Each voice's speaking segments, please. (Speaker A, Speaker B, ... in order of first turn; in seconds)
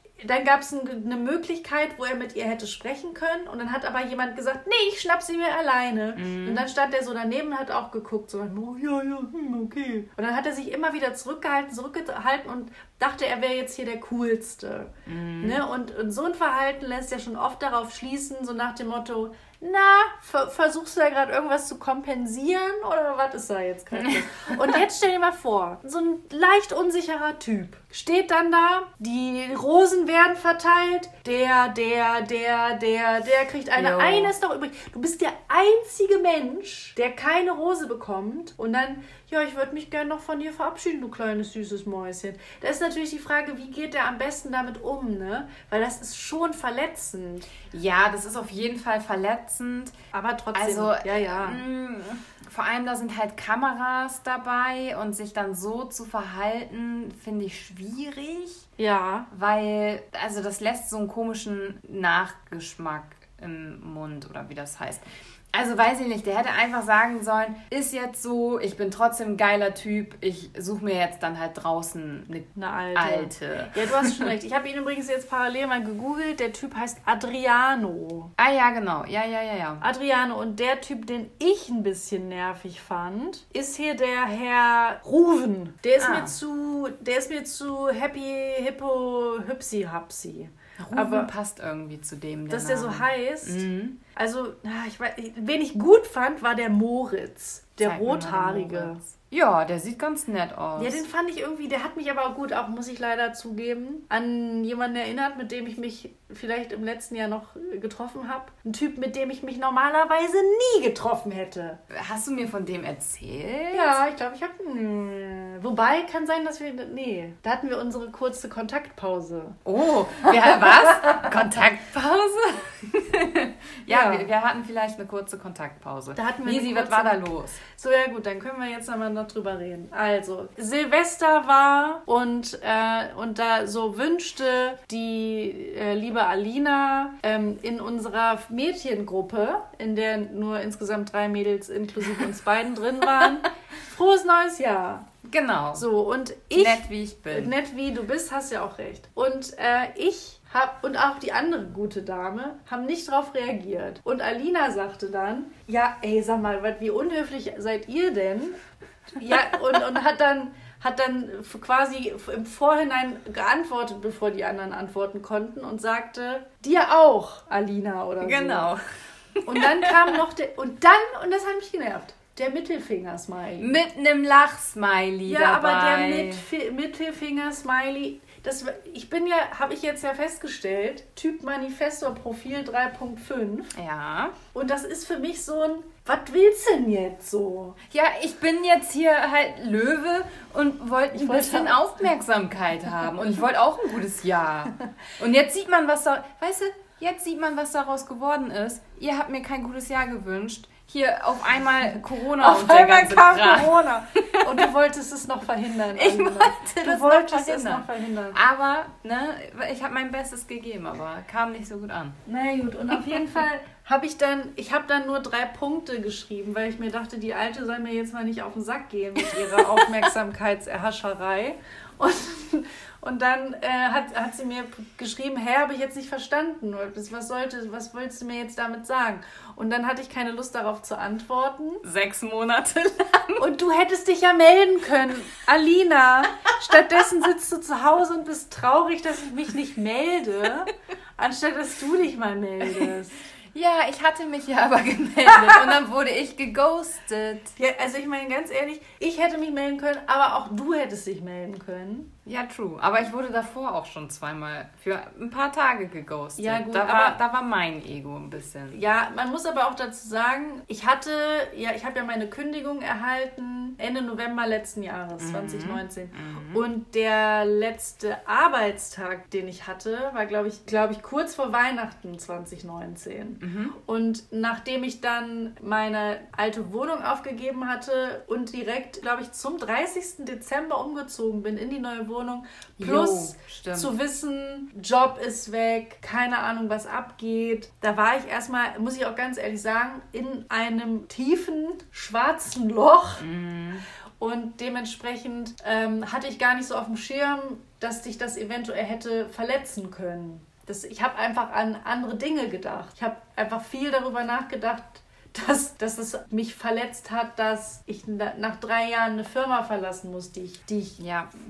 Speaker A: 0.2-47.5, 50.1-51.6, 58.8-59.3, 72.6-78.3, 79.8-91.3, 92.5-99.0, 100.8-111.8, 113.7-119.6, 123.9-124.3, 126.2-145.1, 145.8-158.6, 159.2-168.7, 169.4-173.8, 175.3-183.7, 184.5-187.8, 191.1-191.8, 202.2-208.4, 212.3-231.8, 233.4-243.2, 245.3-245.7, 247.6-252.1, 256.4-257.2, 258.7-293.2, 294.2-311.0
Speaker B: 6.2-6.7, 15.1-15.6, 24.0-24.8, 33.8-34.3, 47.7-50.0, 50.5-58.6, 59.3-74.3, 78.4-79.8, 86.0-86.4, 90.8-94.0, 97.8-101.0, 111.9-114.0, 119.7-127.6, 145.2-145.9, 146.5-147.5, 168.2-168.8, 169.3-170.2, 173.6-176.4, 183.8-184.4, 187.9-204.7, 205.9-212.2, 212.9-213.4, 219.2-219.9, 231.8-233.4, 242.6-243.0, 243.5-247.5, 252.3-258.8, 265.2-266.6, 273.4-273.8, 282.8-283.9, 293.2-293.9, 311.0-311.3